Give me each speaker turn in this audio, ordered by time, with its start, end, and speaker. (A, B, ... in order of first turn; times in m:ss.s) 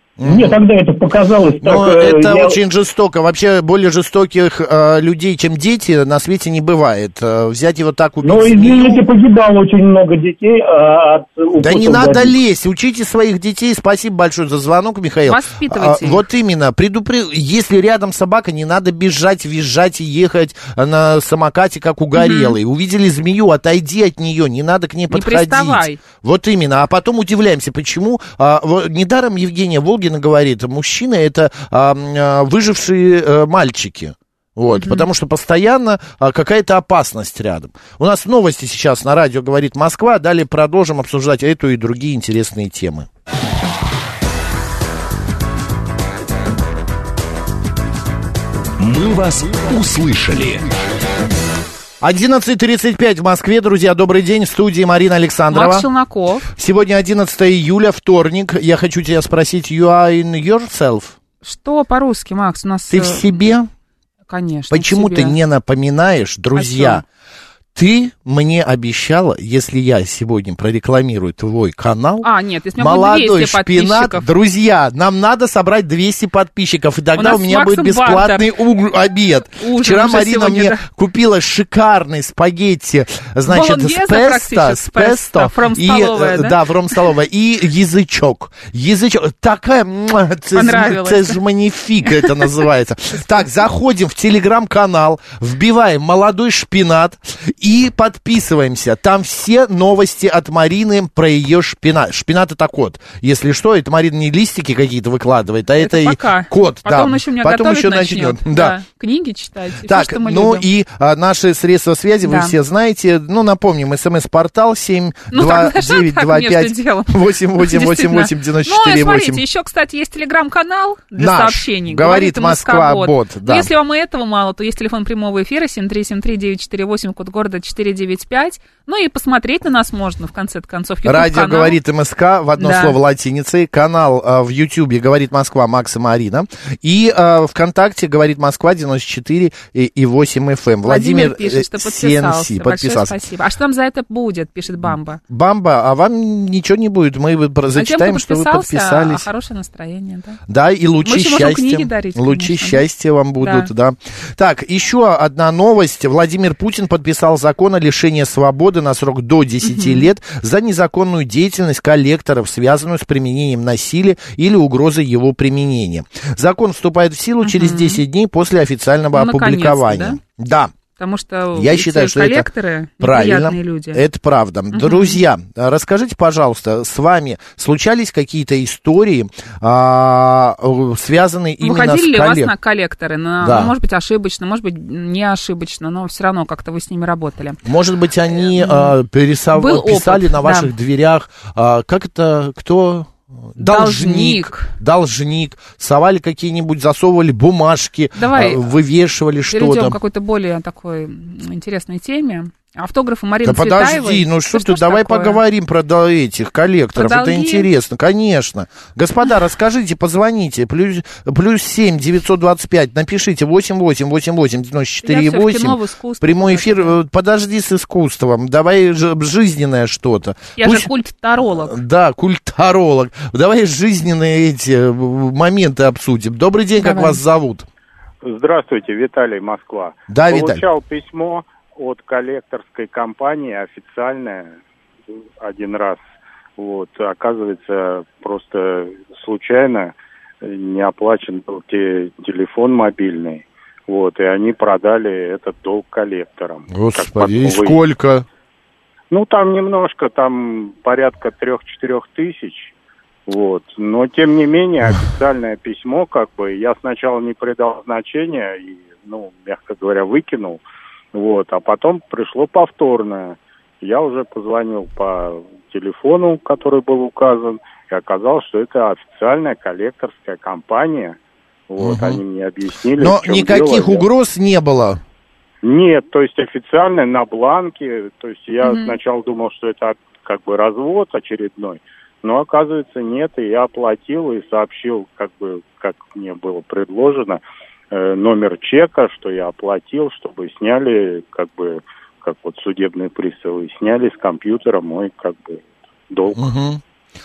0:00.2-0:00.6 A
0:00.2-0:02.6 B
0:01.6-0:09.0 A
0:08.2-0:12.3 B
0:11.6-0:43.1 A
0:15.3-0:16.2 C
0:22.2-0:22.6 C
0:25.1-0:26.0 C
0:34.7-0:35.1 C
0:48.8-0:50.7 D
0:52.0-0:55.9 A
0:55.5-0:56.5 C
0:56.6-1:01.2 A
1:01.4-1:03.4 C
1:02.9-1:03.7 A
1:04.3-1:05.4 C
1:04.7-1:07.0 A
1:06.6-1:07.0 C
1:07.8-1:48.8 A
1:12.2-1:14.3 C
1:17.2-1:18.4 C
1:19.6-1:20.8 C
1:23.5-1:27.0 C
1:30.5-1:31.4 C
1:45.8-1:50.7 C
1:49.8-1:59.4 A
1:52.2-1:52.5 C
1:55.3-2:11.8 C
2:01.2-2:03.7 A
2:11.0-2:23.2 A
2:12.6-2:13.0 C
2:20.8-2:25.2 C
2:24.8-2:29.3 A
2:27.8-2:30.4 C
2:30.5-2:50.7 A
2:31.0-2:32.8 C
2:33.4-2:33.7 C
2:39.6-2:40.1 C
2:47.4-2:48.0 C
2:49.1-2:50.2 C
2:51.0-2:54.0 C
2:51.5-2:52.5 A
2:53.0-3:02.5 A
2:54.7-2:55.2 C
3:01.6-3:07.6 C
3:03.4-3:03.7 A
3:07.6-3:20.0 A
3:08.6-3:09.0 C
3:09.5-3:10.7 C
3:13.6-3:14.7 C
3:18.2-3:18.7 C
3:19.5-3:25.4 C
3:23.4-3:40.9 A
3:27.0-3:27.7 C
3:35.0-3:37.0 C
3:40.6-3:41.8 C
3:41.5-3:47.7 A
3:46.8-3:47.2 C
3:48.2-3:54.6 E
3:50.1-3:50.6 A
3:55.4-3:56.0 E
3:56.6-4:07.8 E
4:06.7-4:08.2 A
4:09.1-4:12.7 E
4:13.3-4:31.2 E
4:31.7-4:34.1 E
4:31.8-4:32.2 A
4:33.0-4:35.0 A
4:35.6-4:56.5 E
4:38.6-4:39.0 C
4:56.4-4:56.8 A